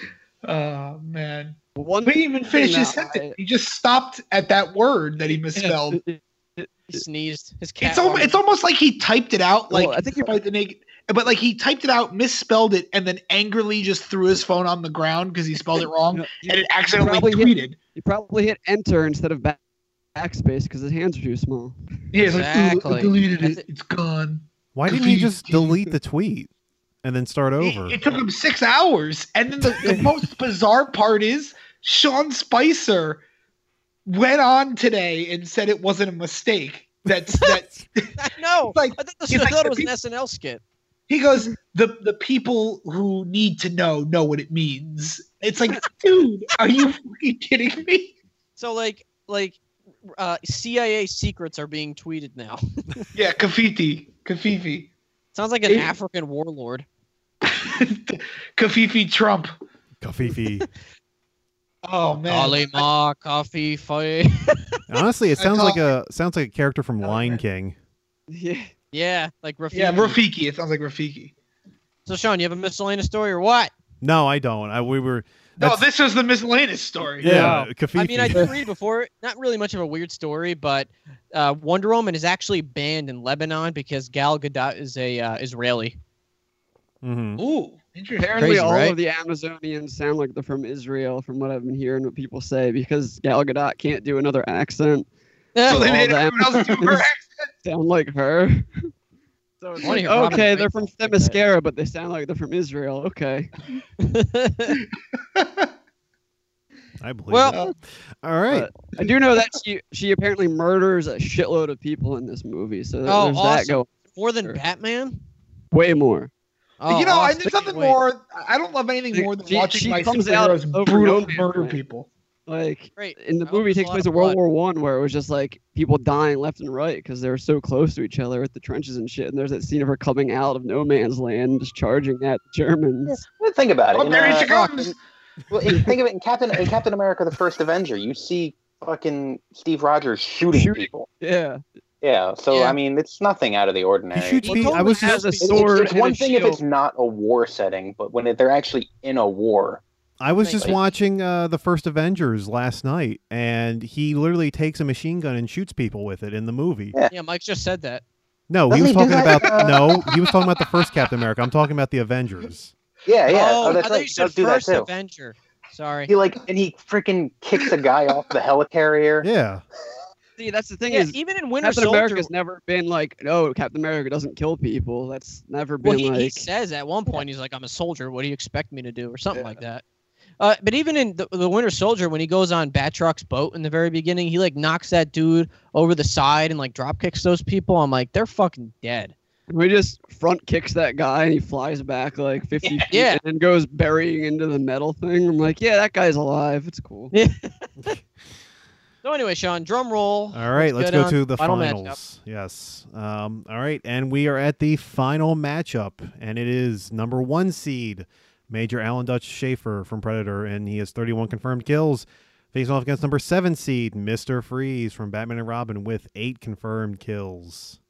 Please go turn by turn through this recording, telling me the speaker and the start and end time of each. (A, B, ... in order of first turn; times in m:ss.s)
0:00.4-0:06.0 A
0:01.8-0:03.4 B
0:05.6-0:07.0 B
0:06.9-0:08.4 C
0:07.8-0:17.8 A
0:09.7-0:10.3 B
0:16.1-0:19.6 B
0:20.2-0:21.8 B
0:22.1-0:25.8 A
0:22.3-0:23.6 C
0:24.8-0:26.5 D
0:27.0-0:28.0 D
0:27.6-0:33.2 A
0:29.8-0:30.2 B
0:34.1-0:38.2 A
0:38.2-0:40.6 C
0:38.7-0:39.9 A
0:41.1-0:48.2 A
0:48.6-0:49.6 C
0:50.2-0:53.1 C
0:53.1-0:54.9 A
0:55.4-0:56.9 C
0:57.4-0:59.5 A
1:00.0-1:00.7 D
1:01.8-1:02.9 A
1:02.3-1:04.7 C
1:04.9-1:07.8 D
1:05.4-1:05.8 A
1:07.0-1:07.4 A
1:08.3-1:08.7 B
1:08.9-1:10.2 C
1:09.7-1:11.3 A
1:12.1-1:13.7 C
1:14.0-1:15.9 D
1:15.6-1:17.5 A
1:17.2-1:17.6 B
1:17.2-1:18.5 D
1:17.3-1:26.0 C
1:18.3-1:18.6 B
1:27.0-1:27.4 D
1:27.4-1:28.6 A
1:28.2-1:35.1 B
1:28.4-1:29.0 C
1:35.6-1:35.9 C
1:35.7-1:37.1 B
1:35.7-1:37.5 A
1:37.6-1:38.9 B
1:39.6-1:43.5 B
1:39.8-1:41.4 C
1:44.0-1:44.7 C
1:45.4-1:45.7 A
1:47.0-1:48.7 D
1:47.3-1:47.6 C
1:48.5-1:54.6 B
1:53.1-1:55.2 C
1:55.7-1:56.3 B
1:56.8-1:58.0 C
1:56.9-2:02.1 A
1:59.1-2:01.8 B
2:02.5-2:13.2 B
2:03.0-2:04.4 C
2:13.1-2:14.9 E
2:14.0-2:15.0 A
2:15.5-2:21.1 E
2:20.5-2:21.6 B
2:22.0-2:24.6 E
2:22.5-2:22.8 C
2:24.1-2:25.3 D
2:24.4-2:25.9 C
2:24.6-2:26.6 B
2:25.5-2:29.8 E
2:30.2-2:37.0 D
2:30.4-2:30.8 C
2:37.1-2:38.0 C
2:38.5-2:42.7 D
2:38.7-2:40.0 E
2:39.5-2:40.5 A
2:43.1-2:44.9 E
2:43.3-2:46.1 C
2:46.1-2:49.3 E
2:49.2-2:49.6 D
2:50.4-2:56.5 B
2:50.9-2:52.3 C
2:55.8-2:59.8 C
2:59.3-2:59.6 B
3:00.4-3:09.1 C
3:09.5-3:17.1 B
3:12.9-3:13.2 C
3:17.1-3:17.9 C
3:19.0-3:22.0 C
3:20.3-3:37.8 D